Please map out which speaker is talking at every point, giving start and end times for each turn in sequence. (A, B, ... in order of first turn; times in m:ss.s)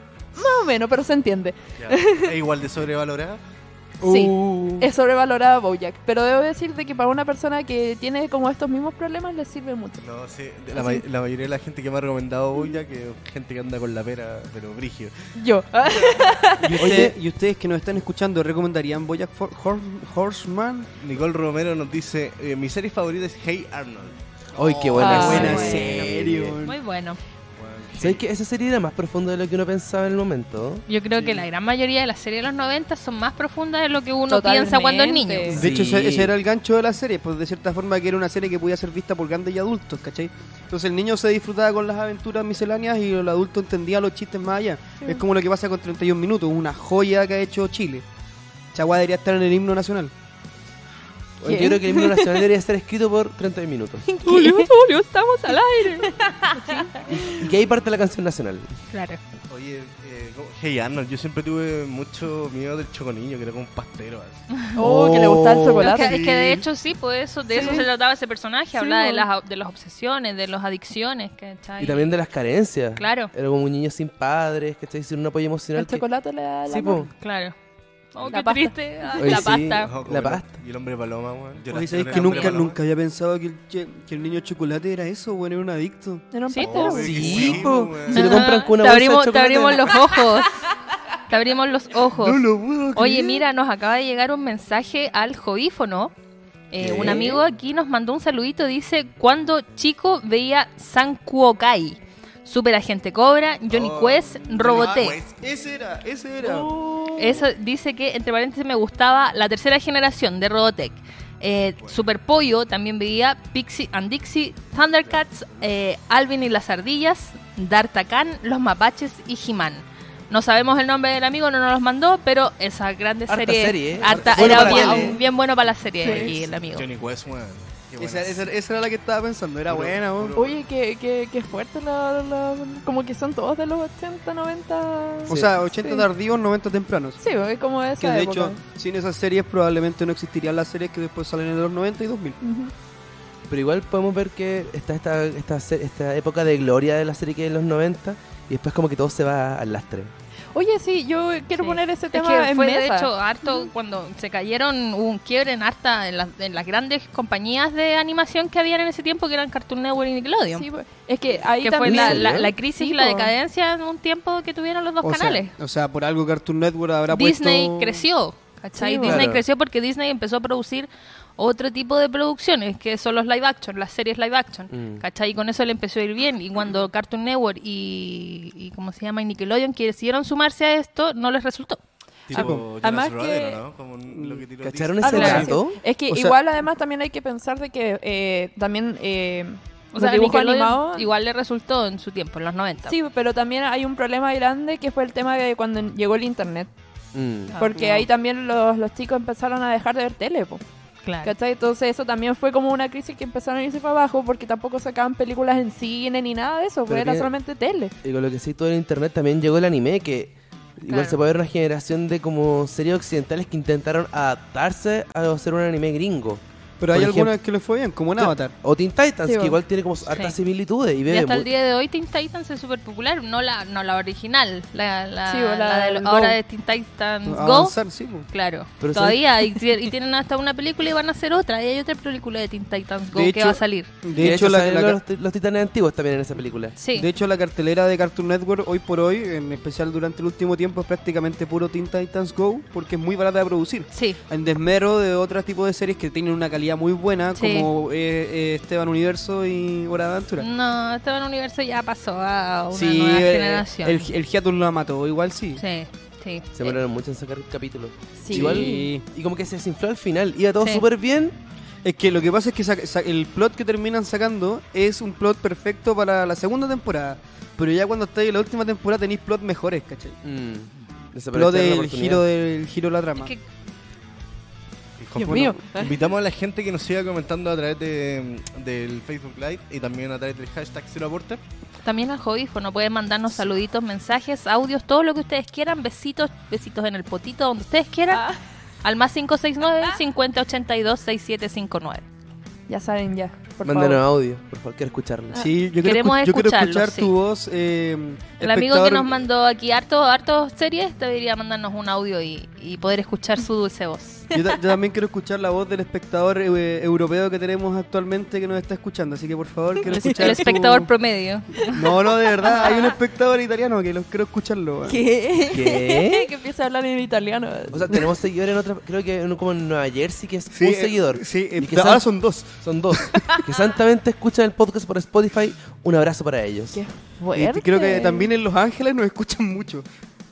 0:00.4-0:02.3 A
0:01.8-0:03.4 B
0:04.0-0:04.9 C
0:04.0-0:10.0 A
0:10.0-0:16.4 B
0:10.7-0:11.0 A
0:15.4-0:17.0 A
0:16.6-0:20.9 C
0:16.8-0:17.2 D
0:21.0-0:26.4 B
0:24.6-0:26.6 D
0:24.6-0:26.8 C
0:25.0-0:25.7 A
0:25.3-0:25.9 E
0:26.6-0:27.2 E
0:27.6-0:28.2 B
0:28.0-0:30.8 D
0:30.9-0:35.6 E
0:34.3-0:35.6 A
0:35.5-0:36.3 D
0:35.5-0:48.0 C
0:48.7-0:50.1 C
0:51.4-0:54.7 D
0:51.4-0:52.5 A
0:54.1-0:57.4 A
0:56.2-0:56.9 E
0:57.1-0:58.7 D
0:58.9-0:59.2 E
0:59.5-1:04.5 B
1:04.8-1:06.2 A
1:04.8-1:06.1 D
1:05.8-1:12.1 E
1:07.5-1:07.9 A
1:08.8-1:09.3 A
1:11.8-1:16.0 D
1:13.0-1:13.3 E
1:15.8-1:17.1 A
1:16.7-1:17.1 D
1:17.1-1:17.6 E
1:18.1-1:19.9 E
1:18.2-1:18.4 B
1:18.3-1:19.2 A
1:19.2-1:20.5 D
1:19.6-1:22.8 B
1:21.7-1:26.3 C
1:26.3-1:27.4 A
1:26.5-1:27.1 E
1:26.6-1:28.6 B
1:27.0-1:30.1 D
1:27.2-1:27.7 C
1:28.1-1:30.6 E
1:31.3-1:32.4 E
1:32.1-1:33.4 C
1:33.0-1:36.1 E
1:36.7-1:45.2 E
1:36.8-1:37.4 D
1:43.7-1:45.4 B
1:44.7-1:46.8 C
1:46.4-1:47.4 A
1:47.2-2:06.9 E
1:55.0-1:55.7 B
2:03.3-2:05.2 D
2:04.1-2:05.2 C
2:04.4-2:05.2 A
2:06.0-2:06.3 A
2:06.1-2:08.5 B
2:08.0-2:10.4 C
2:09.7-2:10.6 B
2:10.4-2:16.1 A
2:15.3-2:15.5 D
2:15.3-2:17.2 C
2:17.2-2:18.6 A
2:18.0-2:22.4 C
2:22.4-2:22.7 A
2:23.5-2:30.1 D
2:30.5-2:33.7 A
2:31.6-2:40.7 E
2:40.5-2:43.3 A
2:41.6-2:45.5 E
2:41.8-2:42.5 D
2:45.0-2:48.1 C
2:47.1-3:01.8 E
2:48.8-2:49.2 A
2:49.0-2:49.4 D
2:54.7-2:55.0 D
3:02.3-3:05.4 B
3:02.3-3:02.7 C
3:02.4-3:03.6 A
3:04.1-3:04.4 C
3:04.6-3:05.8 D
3:05.0-3:11.1 A
3:05.1-3:05.5 E
3:06.1-3:06.4 C
3:09.9-3:13.0 E
3:12.9-3:16.7 A
3:17.1-3:17.6 D
3:17.5-3:17.8 E
3:17.6-3:20.6 A
3:17.8-3:18.0 C
3:21.0-3:21.3 E
3:21.2-3:27.9 A
3:26.9-3:27.3 D
3:28.0-3:37.3 D
3:30.9-3:31.2 E
3:36.8-3:38.5 C
3:38.2-3:41.5 D
3:39.3-3:39.6 A
3:41.1-3:54.0 E
3:45.3-3:46.4 A
3:47.2-3:48.3 C
3:48.8-3:49.2 D
3:53.1-3:55.0 C
3:54.1-3:56.8 D
3:56.8-3:57.1 E
3:56.9-4:10.5 C
4:03.9-4:04.2 E
4:07.4-4:07.7 E
4:10.4-4:14.0 E
4:12.7-4:15.6 C
4:15.6-4:16.8 E
4:16.5-4:21.4 D
4:18.2-4:18.9 A
4:18.3-4:19.0 C
4:21.8-4:30.2 C
4:30.2-4:32.2 D
4:31.3-4:33.3 C
4:33.2-4:33.4 E
4:35.0-4:41.4 B
4:35.2-4:35.9 A
4:41.8-4:48.2 E
4:48.1-4:48.4 A
4:48.8-4:52.0 E
4:52.7-4:54.0 A
4:53.6-4:55.4 D
4:55.3-4:59.2 C
4:55.8-4:57.1 E
4:58.4-5:04.3 E
5:04.3-5:10.9 C
5:09.9-5:10.6 A
5:09.9-5:12.9 E
5:11.7-5:15.0 C
5:12.4-5:12.7 A
5:14.9-5:18.1 A
5:15.5-5:16.3 D
5:17.7-5:26.8 D
5:20.5-5:23.4 C
5:26.7-5:28.3 A
5:27.4-5:29.8 C